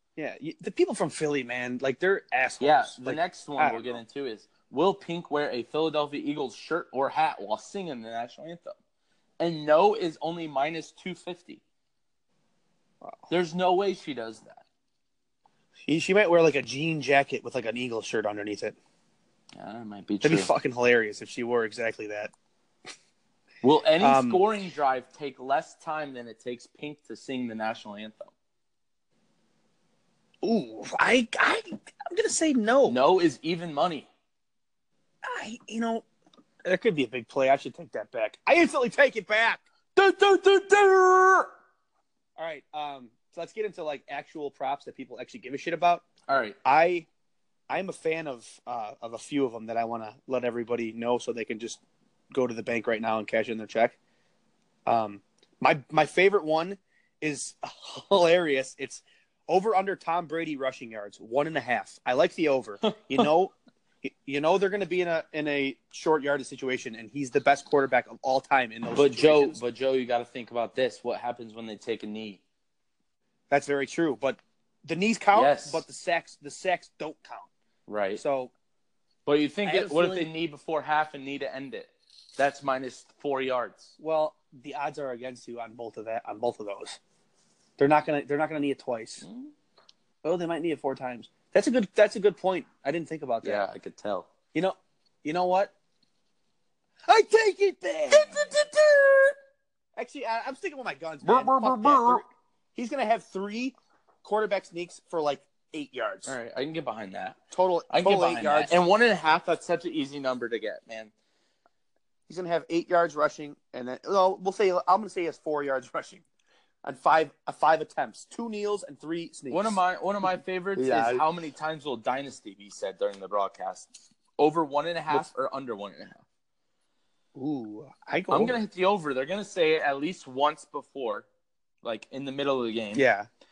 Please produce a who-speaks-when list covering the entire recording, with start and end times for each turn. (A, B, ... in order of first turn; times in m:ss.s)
0:00.2-0:04.0 A
0:02.6-0:08.8 B
0:09.4-0:11.6 B
0:13.0-0:13.3 A
0:13.3-0:14.6 B
0:15.8-0:18.8 A
0:19.6-0:20.5 B
0:20.2-0:22.3 A
0:23.6-0:28.3 B
0:24.0-0:24.4 A
0:30.4-0:33.0 A
0:32.9-0:34.1 B
0:35.2-0:36.0 A
0:36.6-0:39.6 A
0:40.0-0:41.5 B
0:42.4-0:46.0 A
0:46.3-0:46.6 B
0:46.6-0:47.1 A
0:47.7-0:51.8 A
0:52.3-0:54.0 A
0:54.8-1:09.6 A
1:08.9-1:12.4 B
1:13.5-1:17.5 A
1:15.3-1:15.8 B
1:17.9-1:18.2 B
1:18.2-1:18.5 A
1:19.2-1:23.9 B
1:19.6-1:20.3 A
1:24.0-1:27.0 A
1:27.8-1:29.2 A
1:29.2-1:29.5 B
1:30.2-1:33.6 A
1:33.4-1:34.3 B
1:34.5-1:35.7 A
1:37.1-1:38.8 A
1:38.1-1:39.0 B
1:40.0-1:42.2 A
1:41.2-1:42.2 B
1:42.7-1:46.4 A
1:46.2-1:47.4 B
1:47.5-1:48.8 A
1:47.9-1:51.1 B
1:52.3-1:56.2 A
1:56.8-2:01.2 A
1:59.5-2:06.2 B
2:07.3-2:08.6 A
2:08.3-2:11.2 B
2:11.8-2:13.0 B
2:12.9-2:13.3 A